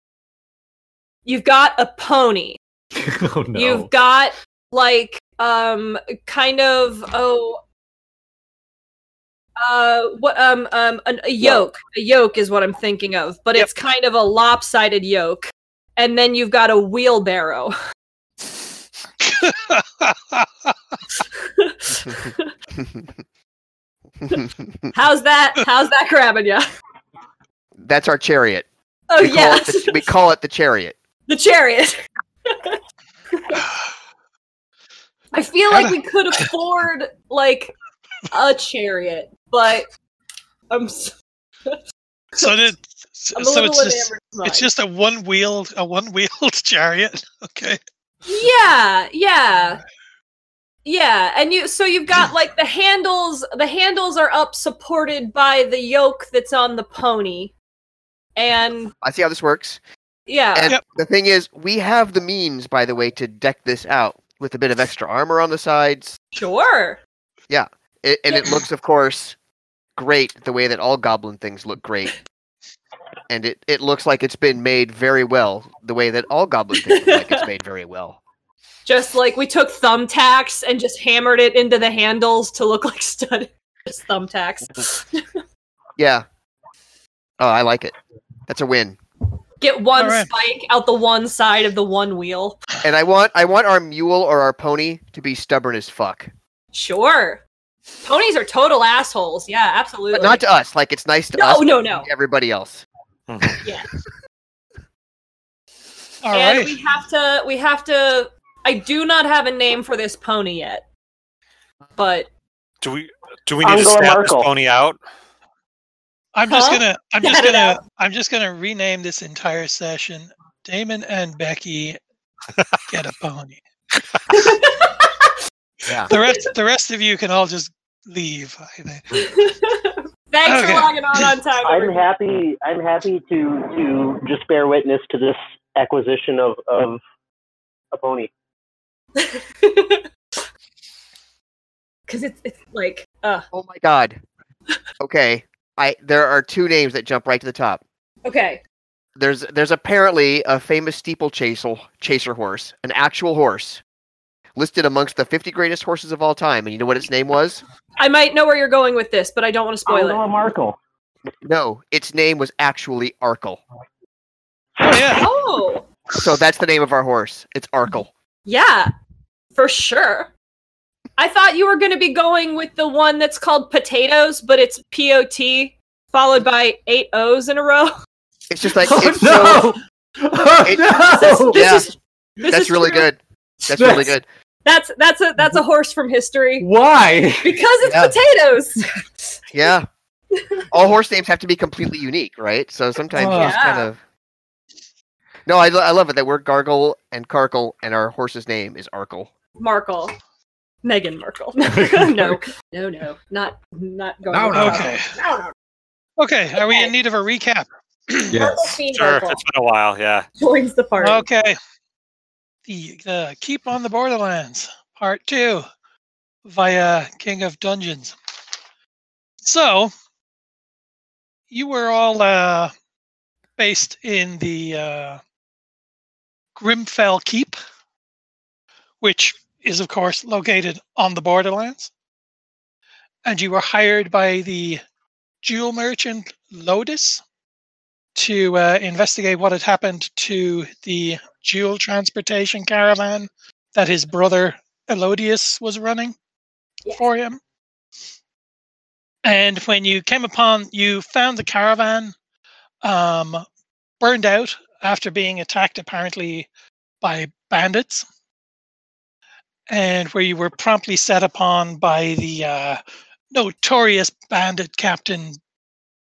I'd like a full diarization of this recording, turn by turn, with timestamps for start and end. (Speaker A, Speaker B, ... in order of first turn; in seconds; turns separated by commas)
Speaker A: 1.2-2.6, Speaker B: 3.0-3.9, Speaker A: 3.5-7.6, Speaker A: 9.6-17.8, Speaker C: 19.2-20.5, Speaker A: 21.2-22.5, Speaker D: 22.8-23.0, Speaker D: 24.2-24.9, Speaker A: 24.9-26.6, Speaker D: 27.8-28.7, Speaker A: 29.1-30.0, Speaker D: 29.2-31.0, Speaker A: 31.3-32.8, Speaker A: 33.3-33.6, Speaker A: 35.3-37.7, Speaker C: 35.7-36.0, Speaker A: 38.3-39.9, Speaker A: 40.7-41.1, Speaker A: 42.4-42.7, Speaker C: 42.4-47.8, Speaker A: 43.4-44.7, Speaker A: 48.2-49.8, Speaker A: 50.9-57.5, Speaker A: 58.4-58.9, Speaker D: 59.0-59.8, Speaker A: 60.3-60.8, Speaker D: 60.5-66.2, Speaker A: 66.3-67.0, Speaker D: 67.5-69.4, Speaker D: 70.0-72.2, Speaker D: 73.3-78.2, Speaker A: 76.9-77.5, Speaker A: 78.9-85.4, Speaker D: 86.0-86.2, Speaker D: 87.4-87.9, Speaker D: 88.5-89.0, Speaker A: 89.6-92.6, Speaker C: 90.0-90.3, Speaker D: 92.8-96.3, Speaker A: 96.7-97.4, Speaker A: 98.0-100.4, Speaker D: 100.1-102.8, Speaker A: 101.4-102.1, Speaker E: 103.3-103.6, Speaker C: 106.2-106.8, Speaker A: 106.3-110.8, Speaker A: 112.0-112.3, Speaker E: 112.8-115.0, Speaker F: 113.6-114.5, Speaker C: 116.3-122.0, Speaker A: 116.5-117.8, Speaker C: 122.9-123.6, Speaker A: 124.3-125.3, Speaker C: 126.1-129.3, Speaker A: 129.2-132.0, Speaker C: 130.4-131.4, Speaker F: 131.6-137.0, Speaker F: 137.9-138.3, Speaker A: 139.2-140.1, Speaker A: 142.1-143.4, Speaker D: 143.5-144.2, Speaker D: 145.0-147.8, Speaker A: 148.2-148.6, Speaker D: 149.2-153.8, Speaker D: 154.6-157.6, Speaker A: 158.0-160.2, Speaker F: 159.9-160.8, Speaker D: 161.4-163.6, Speaker C: 164.8-165.3, Speaker A: 165.2-165.9, Speaker D: 166.1-168.1, Speaker A: 168.5-168.9, Speaker A: 169.6-170.3, Speaker A: 171.2-177.9, Speaker D: 178.5-179.7, Speaker B: 178.9-181.7, Speaker D: 180.6-181.9, Speaker A: 181.2-183.1, Speaker D: 182.5-184.2, Speaker B: 183.7-184.1, Speaker A: 184.7-186.7, Speaker B: 186.6-187.6, Speaker A: 187.4-189.4, Speaker D: 187.8-188.1, Speaker D: 189.5-189.9, Speaker D: 190.7-194.0, Speaker A: 193.1-193.9, Speaker C: 193.2-193.6, Speaker D: 195.5-199.3, Speaker A: 199.6-200.1, Speaker A: 200.8-205.5, Speaker B: 201.7-202.4, Speaker B: 204.3-205.0, Speaker C: 204.5-205.1, Speaker C: 206.2-208.4, Speaker A: 206.6-206.9, Speaker B: 208.3-208.7, Speaker A: 208.3-209.4, Speaker E: 208.9-210.3, Speaker A: 210.4-211.2, Speaker C: 211.0-211.6, Speaker C: 212.7-215.7, Speaker C: 216.4-218.2, Speaker C: 219.4-219.9, Speaker C: 221.5-222.7, Speaker C: 223.6-225.2, Speaker C: 226.6-227.6, Speaker C: 229.0-231.9, Speaker C: 233.2-234.8, Speaker C: 235.4-237.2, Speaker C: 238.2-246.2, Speaker C: 246.9-247.4, Speaker C: 249.2-252.2, Speaker C: 252.8-253.4, Speaker C: 254.0-256.5, Speaker C: 257.0-258.1, Speaker C: 259.7-265.4